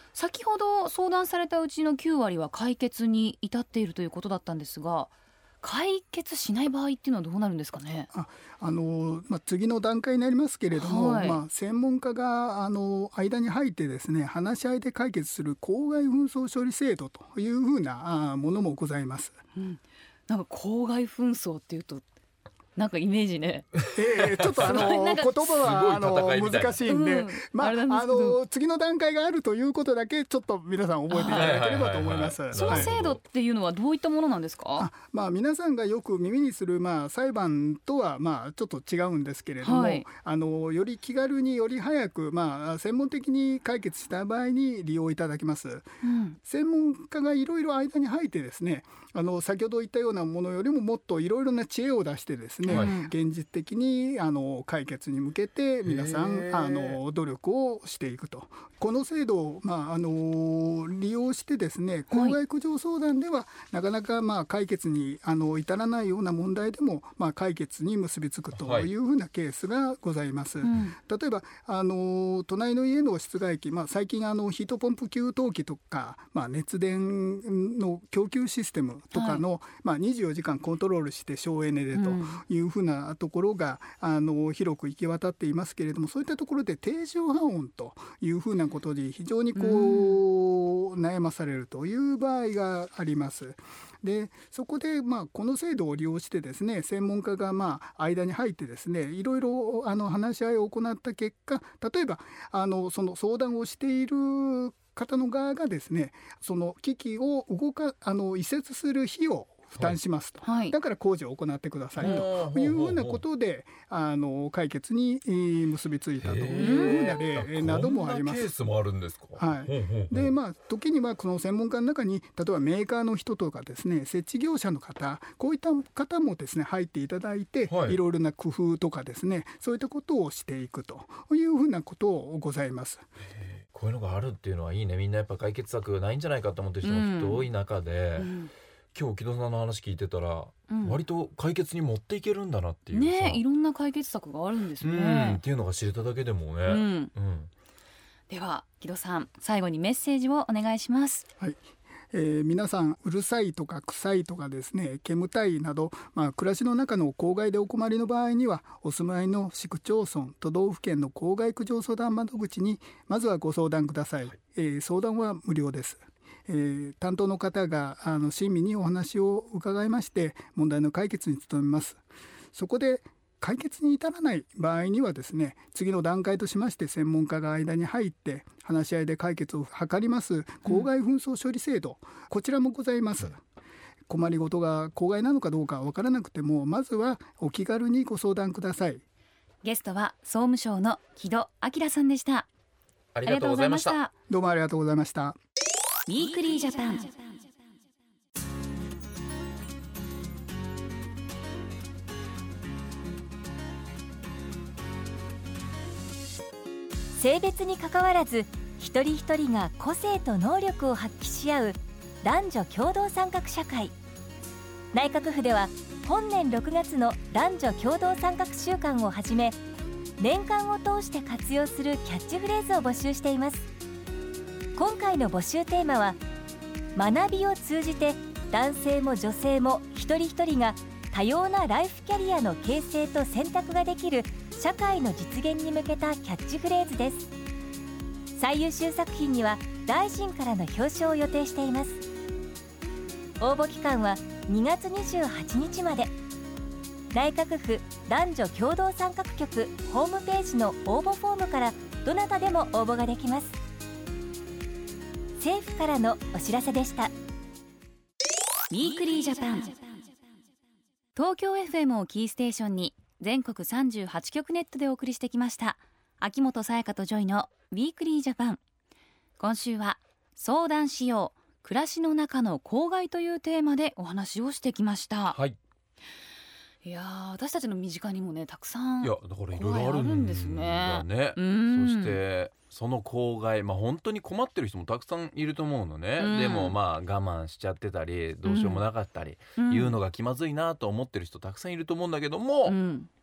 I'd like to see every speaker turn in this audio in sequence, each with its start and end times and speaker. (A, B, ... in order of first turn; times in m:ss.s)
0:00.1-0:08.1 A
0:08.1-0:19.4 B
0:10.8-0:11.4 A
0:19.6-0:22.0 A
0:22.8-0:23.6 A
0:23.8-0:25.0 C
0:23.9-0:32.9 B
0:24.6-0:25.5 A
0:25.6-0:26.8 C
0:26.8-0:28.4 A
0:31.1-0:31.6 A
0:31.3-0:33.2 C
0:32.5-0:34.9 A
0:34.8-0:45.9 B
0:39.6-0:40.0 A
0:46.0-0:46.4 A
0:46.4-1:58.5 B
0:52.6-0:53.1 A
0:52.7-0:52.9 C
0:55.8-0:57.0 C
1:02.1-1:02.4 A
1:08.5-1:08.9 C
1:10.6-1:11.0 A
1:19.1-1:19.4 A
1:21.9-1:22.4 A
1:29.5-1:30.2 A
1:50.4-1:50.8 A
1:52.0-1:53.2 C
1:52.0-1:52.2 A
1:56.2-2:00.3 C
1:56.5-1:57.0 A
1:59.4-2:13.0 B
2:07.7-2:08.0 C
2:13.7-2:18.3 C
2:16.8-2:17.5 A
2:18.2-2:18.5 A
2:18.9-2:23.4 C
2:20.7-2:21.0 A
2:22.9-2:25.4 A
2:24.8-2:27.5 C
2:26.6-2:27.1 A
2:28.3-2:31.2 A
2:31.4-2:52.0 B
2:52.5-3:03.4 B
3:04.1-3:09.0 B
3:09.6-3:12.5 A
3:13.1-3:14.0 C
3:13.2-3:14.1 A
3:14.3-3:15.4 B
3:16.1-3:17.1 A
3:27.1-3:33.9 D
3:34.9-3:39.6 D
3:40.2-3:43.7 D
3:44.7-3:46.2 D
3:46.9-3:57.3 D
3:58.3-4:02.0 D
4:03.4-4:06.1 D
4:07.1-4:13.5 D
4:15.4-4:17.1 D
4:18.7-4:19.8 A
4:21.1-4:28.6 A
4:29.4-4:35.4 A
4:35.3-4:35.6 C
4:36.8-4:42.2 A
4:39.0-4:52.8 C
4:46.2-4:46.8 A
4:48.4-4:48.8 A
4:49.6-4:50.0 A
4:52.6-4:53.1 A